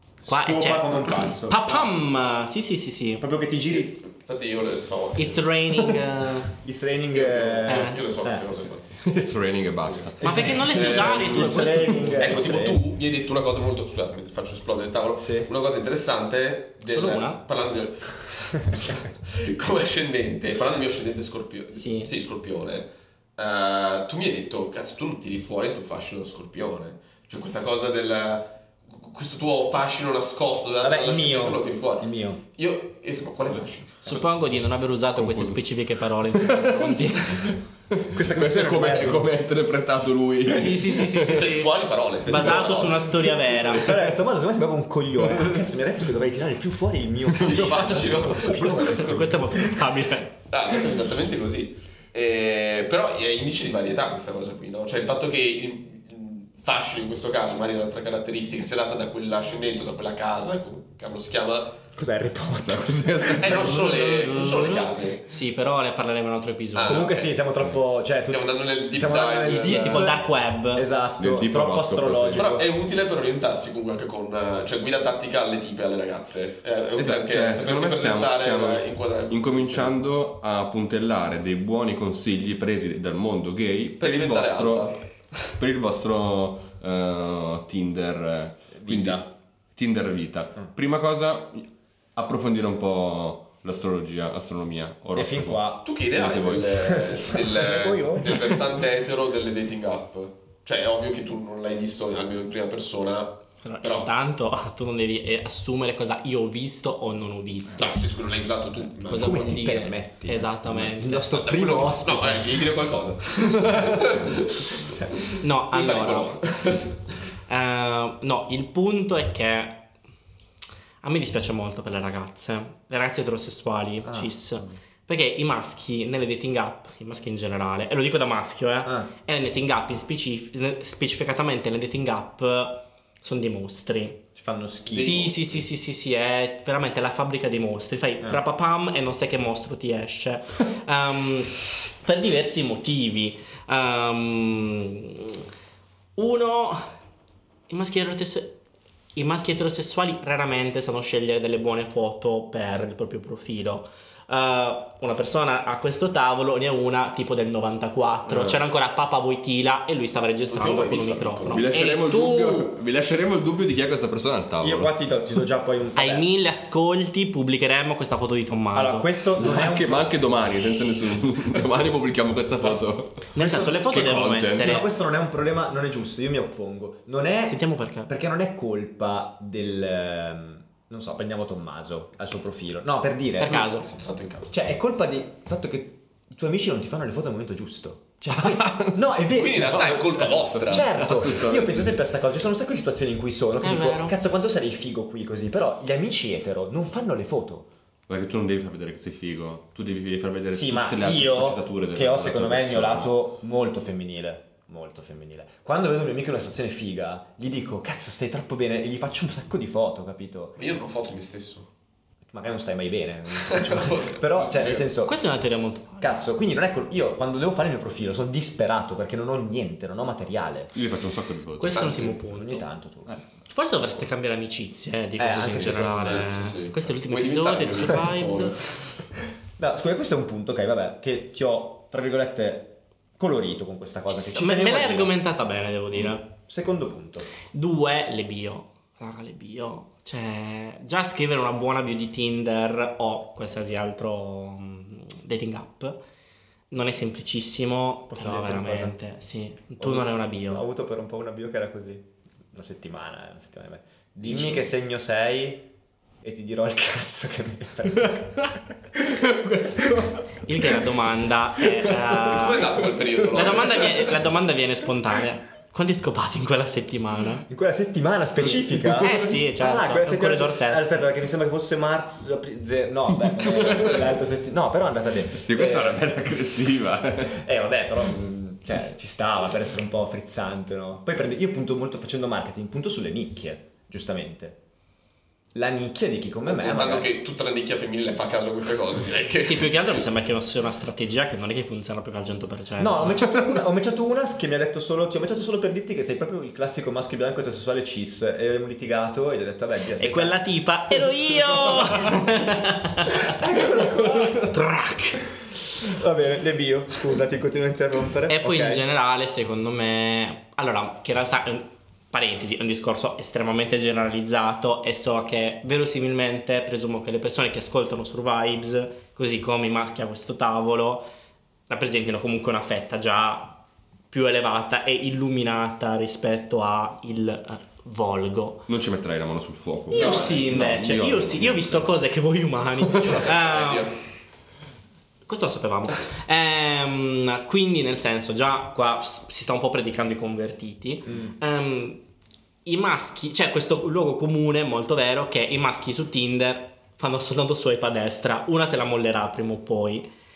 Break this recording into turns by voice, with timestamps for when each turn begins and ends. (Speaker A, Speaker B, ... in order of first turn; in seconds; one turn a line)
Speaker A: 0.2-1.9
Speaker B: 0.2-3.2
Speaker A: 3.2-4.0
Speaker C: 3.7-5.5
Speaker B: 5.2-6.5
Speaker A: 6.5-8.4
Speaker C: 7.1-9.0
Speaker B: 7.7-8.0
Speaker D: 9.0-12.0
Speaker A: 10.2-12.8
Speaker B: 10.2-12.5
Speaker C: 10.7-11.4
Speaker C: 12.1-34.1
Speaker A: 15.2-15.5
Speaker B: 16.9-17.4
Speaker B: 21.7-22.1
Speaker A: 30.8-32.4
Speaker B: 34.0-37.5
Speaker D: 35.1-35.6
Speaker D: 36.2-41.5
Speaker A: 38.1-39.3
Speaker B: 40.5-43.9
Speaker C: 41.1-44.0
Speaker A: 42.3-42.9
Speaker A: 43.5-49.8
Speaker D: 45.2-45.6
Speaker C: 47.3-49.3
Speaker B: 48.4-50.4
Speaker C: 50.5-61.8
Speaker A: 61.9-64.0
Speaker D: 62.6-63.9
Speaker C: 63.4-65.2
Speaker B: 63.8-67.1
Speaker C: 66.8-67.4
Speaker A: 66.8-72.7
Speaker C: 68.3-70.1
Speaker B: 69.3-70.9
Speaker D: 71.2-72.5
Speaker C: 72.3-80.0
Speaker D: 77.0-96.9
Speaker C: 84.0-85.4
Speaker A: 88.7-89.3
Speaker A: 95.1-95.9
Speaker C: 95.8-104.1
Speaker A: 96.8-98.6
Speaker B: 103.6-108.0
Speaker C: 107.8-109.6
Speaker B: 109.0-111.4
Speaker A: 109.1-112.7
Speaker C: 111.3-117.0
Speaker A: 113.6-114.3
Speaker A: 114.8-115.2
Speaker B: 115.4-116.4
Speaker B: 117.5-119.9
Speaker B: 121.0-134.2
Speaker A: 124.0-124.3
Speaker A: 128.8-129.1
Speaker A: 134.3-135.3
Speaker C: 134.9-135.4
Speaker B: 134.9-145.4
Speaker B: 146.2-146.9
Speaker B: 147.7-148.6
Speaker B: 149.1-162.7
Speaker D: 158.3-158.6
Speaker C: 160.5-161.7
Speaker D: 161.5-164.9
Speaker A: 164.6-166.2
Speaker B: 165.9-169.1
Speaker A: 168.7-170.2
Speaker D: 169.4-174.8
Speaker B: 173.3-174.9
Speaker A: 173.3-183.7
Speaker B: 177.5-178.1
Speaker B: 183.4-183.9
Speaker C: 183.5-184.5
Speaker A: 184.5-197.7
Speaker D: 188.3-188.9
Speaker C: 189.2-191.3
Speaker D: 190.5-192.0
Speaker B: 193.6-194.1
Speaker D: 198.1-203.1
Speaker A: 200.5-210.6
Speaker C: 210.6-211.7
Speaker A: 212.3-215.2
Speaker C: 213.4-214.9
Speaker B: 215.0-216.2
Speaker A: 216.0-220.8
Speaker D: 220.7-222.0
Speaker B: 221.6-222.6
Speaker C: 221.7-222.2
Speaker A: 221.9-223.2
Speaker B: 223.5-228.6
Speaker A: 225.2-226.3
Speaker C: 225.5-228.8
Speaker A: 229.6-235.1
Speaker B: 234.3-236.3
Speaker A: 236.3-237.3
Speaker B: 237.5-246.0
Speaker B: 246.7-250.6
Speaker A: 248.1-248.9
Speaker A: 249.8-255.7
Speaker A: 256.2-259.0
Speaker D: 259.2-260.2
Speaker B: 260.4-262.7
Speaker C: 261.9-264.2
Speaker B: 263.3-267.4
Speaker A: 267.5-276.0
Speaker B: 268.4-271.1
Speaker D: 273.6-273.9
Speaker D: 275.4-277.4
Speaker A: 277.2-284.6
Speaker A: 285.5-287.1
Speaker C: 286.4-290.0
Speaker B: 289.4-293.2
Speaker A: 292.8-300.4
Speaker B: 300.0-303.4
Speaker A: 301.5-302.2
Speaker A: 303.1-304.6
Speaker B: 304.1-305.3
Speaker A: 305.8-308.8
Speaker B: 308.3-321.1
Speaker B: 321.7-328.6
Speaker D: 328.7-332.0
Speaker B: 329.9-333.9
Speaker C: 329.9-330.4
Speaker C: 332.9-334.0
Speaker B: 335.3-342.0
Speaker B: 342.6-350.1